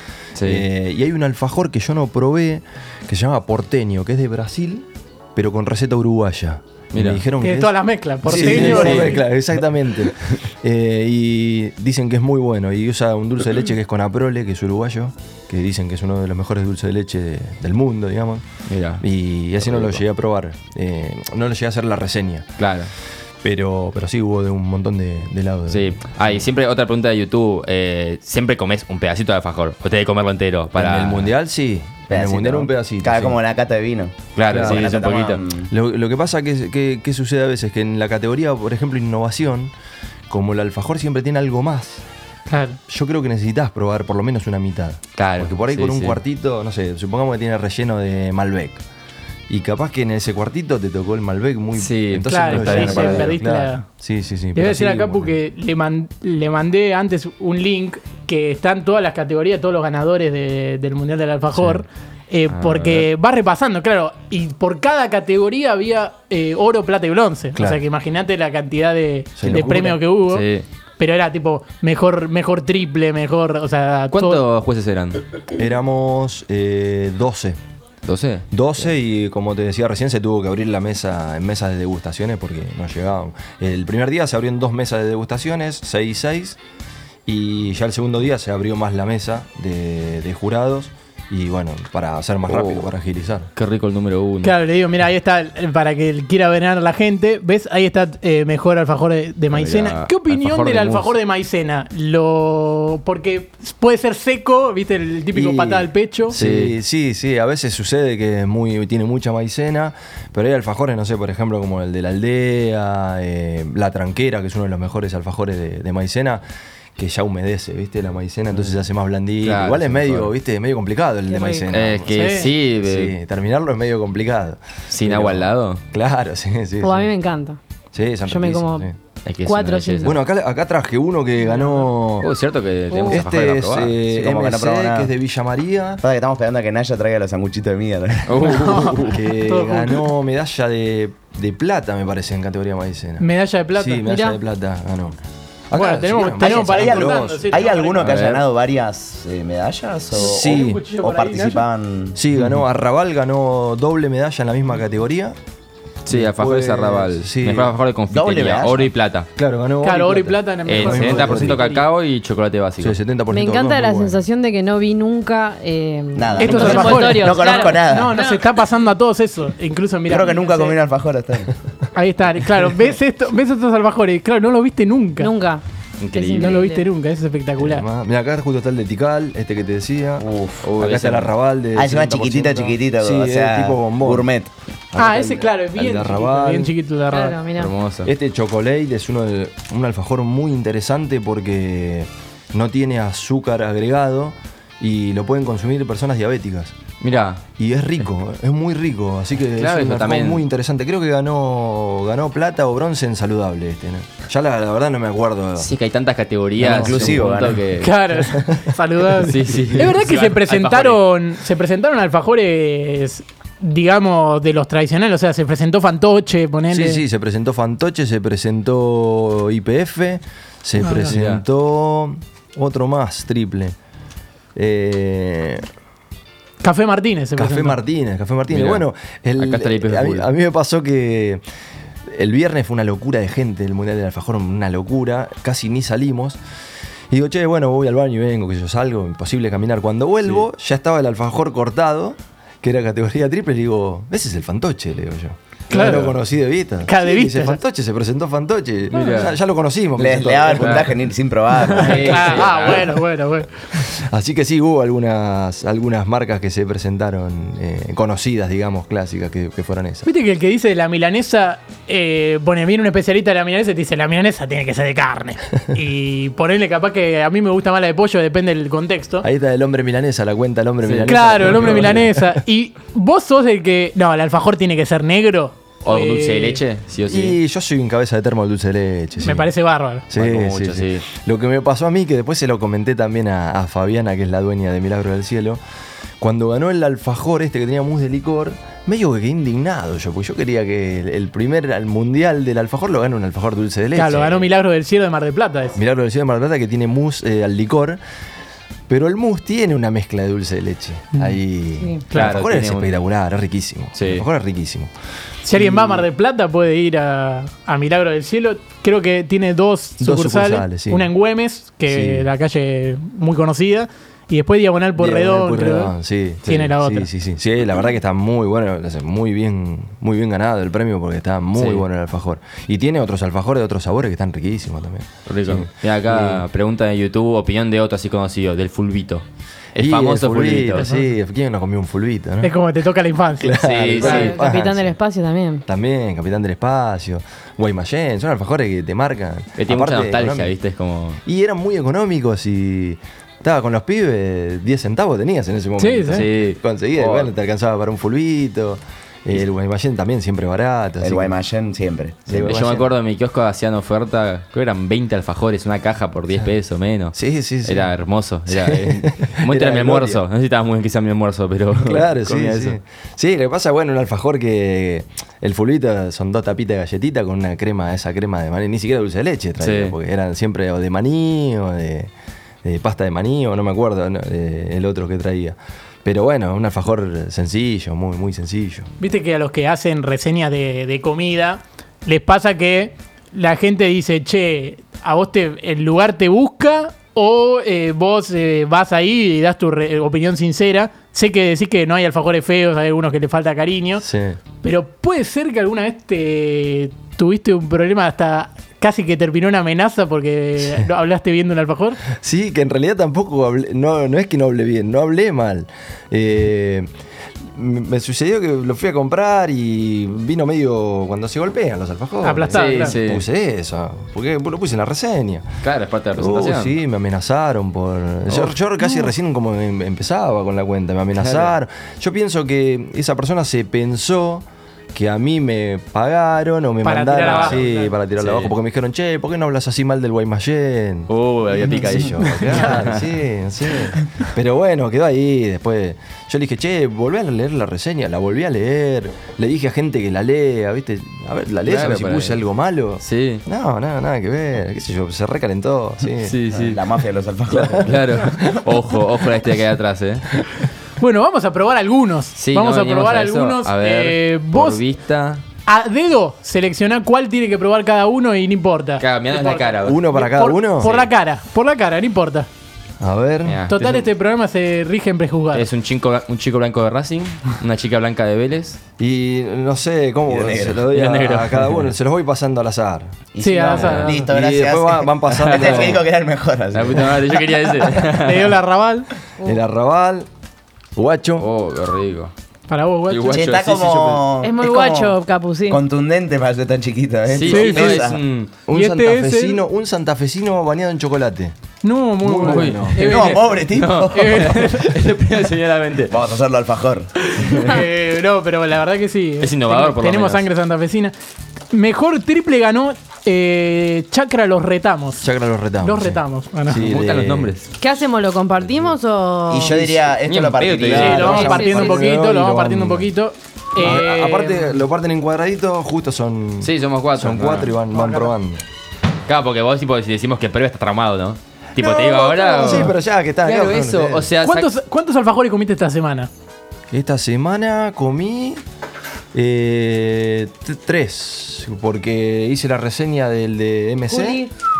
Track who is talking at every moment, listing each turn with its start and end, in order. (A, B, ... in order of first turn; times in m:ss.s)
0:00.4-0:00.6 A
0:00.4-0:18.4 B
0:06.9-0:07.2 A
0:07.4-0:09.2 C
0:08.3-0:09.2 A
0:18.7-0:19.0 A
0:19.0-0:22.6 B
0:22.6-0:22.9 A
0:23.4-0:25.9 B
0:25.7-0:31.3 A
0:30.7-0:33.4 B
0:32.1-0:35.7 D
0:34.4-0:35.4 A
0:34.5-0:35.0 B
0:35.7-0:39.7 B
0:40.3-0:42.0 B
0:42.5-0:42.8 C
0:42.9-0:48.8 B
0:45.2-0:46.2 A
0:49.5-0:55.4 B
0:51.8-0:53.4 A
0:52.3-0:53.8 C
0:54.5-1:10.4 C
1:01.5-1:01.8 B
1:02.5-1:03.0 A
1:07.6-1:07.8 B
1:09.4-1:10.0 B
1:10.3-1:10.6 A
1:11.0-1:14.4 C
1:14.1-1:15.2 A
1:15.5-1:17.6 B
1:18.0-1:18.4 A
1:18.5-1:26.6 B
1:27.2-1:33.5 B
1:32.5-1:32.8 A
1:33.6-1:34.6 A
1:34.4-1:46.4 C
1:39.5-1:41.1 A
1:45.3-1:56.4 B
1:46.3-1:46.7 A
1:57.0-2:07.1 B
1:59.4-2:00.3 A
2:01.3-2:01.6 E
2:01.7-2:03.1 A
2:02.1-2:02.5 C
2:04.9-2:05.8 A
2:06.8-2:07.6 E
2:07.9-2:09.0 B
2:08.3-2:08.9 E
2:09.2-2:10.1 A
2:09.4-2:10.2 E
2:10.0-2:12.3 B
2:11.5-2:11.8 C
2:12.2-2:14.0 A
2:12.9-2:13.2 E
2:13.0-2:16.0 B
2:14.1-2:15.1 D
2:16.0-2:18.6 D
2:18.2-2:19.2 A
2:18.4-2:20.0 C
2:19.1-2:25.2 B
2:23.2-2:24.1 C
2:24.0-2:24.4 E
2:25.7-2:27.6 B
2:25.7-2:28.0 C
2:26.4-2:32.2 D
2:28.0-2:28.4 A
2:30.2-2:30.8 B
2:30.2-2:31.6 C
2:32.1-2:35.4 B
2:36.0-2:39.3 A
2:36.1-2:37.7 B
2:38.1-2:38.9 D
2:39.4-2:41.6 B
2:39.8-2:41.8 C
2:40.7-2:43.0 A
2:42.8-2:44.2 B
2:43.3-2:48.4 E
2:46.1-2:48.2 D
2:46.4-2:50.8 C
2:50.1-2:51.5 D
2:51.9-2:55.3 C
2:55.2-2:55.6 E
2:56.0-2:56.6 A
2:56.1-2:56.8 E
2:56.3-2:57.8 C
2:57.6-3:00.2 B
3:00.2-3:00.7 D
3:00.6-3:01.3 A
3:00.8-3:04.3 B
3:01.7-3:04.5 D
3:04.9-3:06.7 B
3:05.0-3:07.4 C
3:07.1-3:07.7 E
3:07.5-3:08.1 A
3:08.0-3:16.8 B
3:17.0-3:17.4 A
3:17.6-3:25.7 B
3:19.6-3:20.4 A
3:25.6-3:27.9 A
3:26.6-3:27.6 B
3:26.7-3:27.6 D
3:27.8-3:37.0 C
3:28.1-3:29.9 B
3:29.2-3:31.0 A
3:36.7-3:43.8 B
3:40.8-3:41.1 C
3:41.0-3:41.4 A
3:44.5-3:45.7 B
3:46.6-3:47.8 C
3:47.4-3:51.4 B
3:48.5-3:48.8 A
3:49.4-3:50.3 A
3:52.1-3:56.4 B
3:57.1-4:11.0 B
4:05.7-4:06.2 C
4:06.8-4:07.6 C
4:08.9-4:09.3 A
4:10.0-4:12.3 D
4:10.5-4:10.9 A
4:11.7-4:12.9 A
4:11.7-4:13.5 C
4:11.9-4:12.8 B
4:13.7-4:20.1 B
4:20.0-4:29.2 C
4:29.2-4:32.4 B
4:30.8-4:31.9 A
4:31.1-4:36.6 C
4:35.8-4:37.4 A
4:37.1-4:39.5 B
4:39.2-4:40.0 C
4:40.1-4:45.6 B
4:40.2-4:41.0 A
4:46.2-4:54.5 B
4:53.9-4:55.8 C
4:55.7-4:58.0 B
4:58.9-5:04.9 B
5:02.1-5:02.9 A
5:04.0-5:04.2 A
5:05.4-5:15.9 C
5:05.5-5:06.0 B
5:10.0-5:11.1 B
5:11.9-5:12.3 B
5:15.0-5:26.4 B
5:16.4-5:17.1 C
5:21.5-5:21.8 A
5:25.3-5:29.2 A
5:29.7-5:30.9 A
5:29.7-5:32.6 B
5:30.8-5:31.0 C
5:32.4-5:34.3 C
5:33.4-5:34.9 B
5:33.6-5:34.4 A
5:34.0-5:35.6 E
5:35.7-5:40.5 B
5:39.6-5:41.2 A
5:41.2-5:51.3 B
5:45.8-5:46.2 C
5:46.1-5:46.6 A
5:51.0-5:52.8 D
5:52.3-5:52.8 B
5:52.4-6:02.8 A
5:57.1-5:57.9 B
5:58.5-6:00.2 B
6:01.8-6:12.1 B
6:09.6-6:09.9 A
6:12.6-6:18.9 B
6:19.0-6:34.0 C
6:34.0-6:34.4 B
6:34.6-6:42.0 C
6:42.0-6:46.9 B
6:47.4-6:55.6 B
6:52.2-6:53.0 C
6:52.5-6:53.2 A
6:55.6-6:56.7 A
6:56.2-7:26.4 B
6:58.3-6:58.5 A
7:01.2-7:01.5 A
7:06.8-7:07.9 C
7:07.2-7:07.6 A
7:08.2-7:08.5 A
7:11.1-7:13.1 A
7:21.7-7:22.4 A
7:23.0-7:23.4 A
7:26.2-7:26.8 A
7:26.5-7:28.0 D
7:27.6-7:28.6 B
7:27.7-7:30.3 A
7:31.0-7:34.8 C
7:32.4-7:35.4 A
7:35.6-7:42.5 C
7:39.0-7:40.0 A
7:39.8-7:40.9 B
7:40.8-7:41.1 A
7:43.0-7:43.8 B
7:43.4-7:44.0 A
7:43.7-7:45.6 C
7:45.5-7:48.8 A
7:49.0-7:53.2 B
7:50.3-7:50.8 D
7:50.9-7:51.9 A
7:53.3-7:57.2 D
7:53.4-7:54.2 C
7:53.8-7:54.2 A
7:53.8-7:56.0 B
7:55.3-7:56.0 A
7:56.7-7:58.5 A
7:58.1-7:59.1 C
7:59.4-8:00.3 B
8:01.0-8:01.5 B
8:01.4-8:02.3 A
8:02.7-8:03.4 C
8:03.1-8:04.2 A
8:03.3-8:05.1 D
8:04.4-8:05.8 E
8:05.7-8:08.2 D
8:07.3-8:08.5 A
8:07.4-8:08.0 C
8:08.6-8:11.5 B
8:08.7-8:09.6 C
8:11.8-8:15.0 C
8:12.2-8:13.0 B
8:12.4-8:16.1 A
8:13.0-8:14.5 D
8:16.1-8:17.1 D
8:17.3-8:21.1 C
8:19.4-8:20.4 A
8:21.7-8:25.3 C
8:25.2-8:27.5 B
8:25.8-8:26.8 C
8:26.7-8:27.7 A
8:27.8-8:29.8 E
8:29.5-8:31.2 D
8:29.7-8:30.0 B
8:30.2-8:31.4 A
8:30.8-8:33.1 B
8:30.9-8:34.7 C
8:31.0-8:32.1 E
8:33.8-8:38.6 B
8:36.6-8:37.7 A
8:37.9-8:38.3 C
8:39.3-8:44.7 A
8:41.8-8:42.8 E
8:42.3-8:44.3 B
8:44.4-8:46.3 C
8:46.9-8:48.6 B
8:49.3-8:54.4 B
8:54.1-8:54.5 E